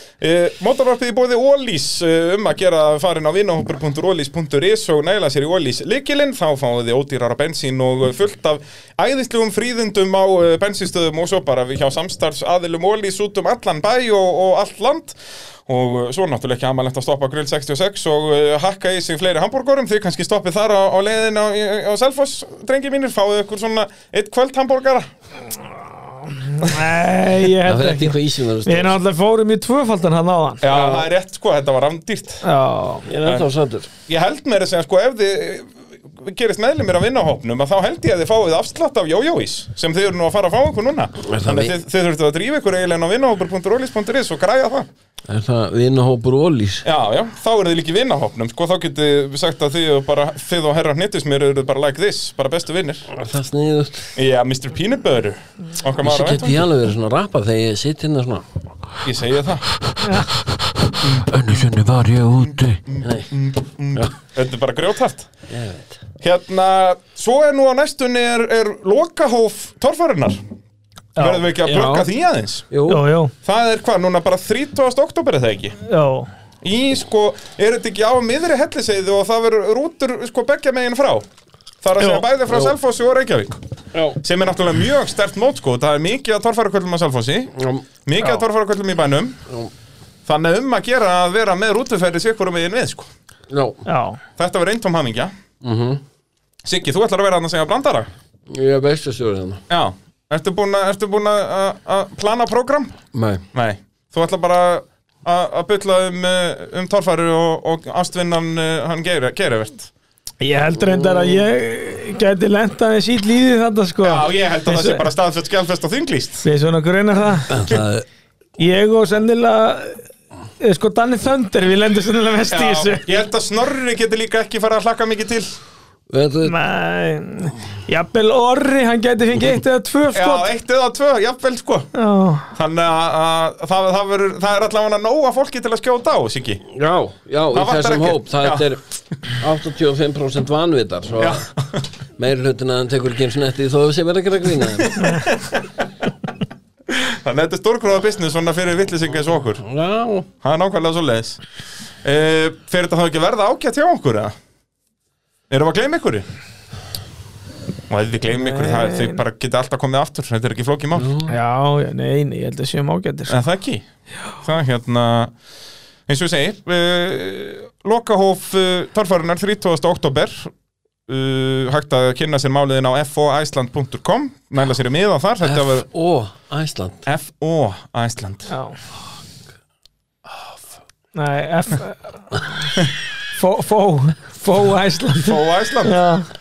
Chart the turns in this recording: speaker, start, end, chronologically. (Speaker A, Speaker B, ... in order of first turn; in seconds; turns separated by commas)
Speaker A: 0.2-25.1, Speaker B: 26.2-30.6, Speaker C: 27.6-29.0, Speaker A: 30.6-32.4, Speaker C: 30.7-31.1, Speaker B: 32.4-33.1, Speaker C: 33.0-33.9, Speaker A: 34.1-44.9, Speaker C: 41.2-41.8, Speaker C: 45.3-46.9, Speaker A: 46.8-53.0, Speaker C: 53.1-54.1, Speaker A: 54.1-56.6, Speaker C: 56.0-58.5, Speaker A: 59.0-59.7, Speaker B: 60.0-60.4, Speaker C: 60.8-63.3, Speaker A: 61.0-61.3, Speaker A: 62.9-65.3, Speaker C: 65.5-66.0, Speaker A: 66.2-70.4, Speaker B: 71.2-71.5, Speaker A: 71.2-72.7, Speaker C: 71.6-72.1, Speaker C: 72.7-73.0, Speaker B: 72.9-73.3, Speaker A: 73.4-75.8, Speaker B: 75.9-76.3, Speaker A: 76.6-81.2, Speaker A: 81.8-83.6, Speaker B: 82.0-82.2, Speaker C: 82.5-82.8, Speaker C: 83.9-84.2, Speaker A: 84.2-87.5, Speaker C: 87.5-87.8, Speaker A: 88.0-89.4, Speaker A: 90.3-93.1, Speaker C: 93.5-93.8, Speaker B: 93.8-94.2, Speaker A: 94.4-95.3, Speaker C: 95.6-96.0, Speaker A: 96.6-98.1, Speaker C: 98.5-99.6, Speaker A: 99.7-103.0, Speaker C: 103.1-103.4, Speaker A: 103.5-109.9, Speaker B: 110.4-115.0, Speaker C: 110.8-111.5, Speaker A: 114.0-116.4, Speaker B: 116.4-117.6, Speaker C: 117.5-118.0, Speaker B: 118.6-120.0, Speaker B: 120.6-123.0, Speaker A: 122.5-125.5, Speaker C: 126.1-126.5, Speaker B: 126.4-130.5, Speaker A: 130.1-131.9, Speaker B: 131.9-132.5, Speaker A: 132.5-136.6, Speaker C: 136.7-141.5, Speaker A: 137.5-138.7, Speaker A: 141.2-141.8, Speaker C: 142.2-145.2, Speaker A: 144.8-145.7, Speaker A: 146.9-149.6, Speaker C: 149.6-150.3, Speaker A: 150.4-151.4, Speaker A: 152.0-154.3, Speaker A: 155.5-156.2, Speaker A: 157.9-161.1, Speaker B: 158.3-159.2, Speaker C: 160.9-161.3, Speaker B: 161.3-163.3, Speaker A: 163.3-163.8, Speaker A: 164.4-165.3, Speaker A: 166.1-170.5, Speaker A: 171.1-175.8, Speaker C: 175.4-177.0, Speaker A: 177.1-178.5, Speaker B: 178.5-178.8, Speaker B: 181.1-182.7, Speaker B: 183.3-186.3, Speaker A: 185.1-186.0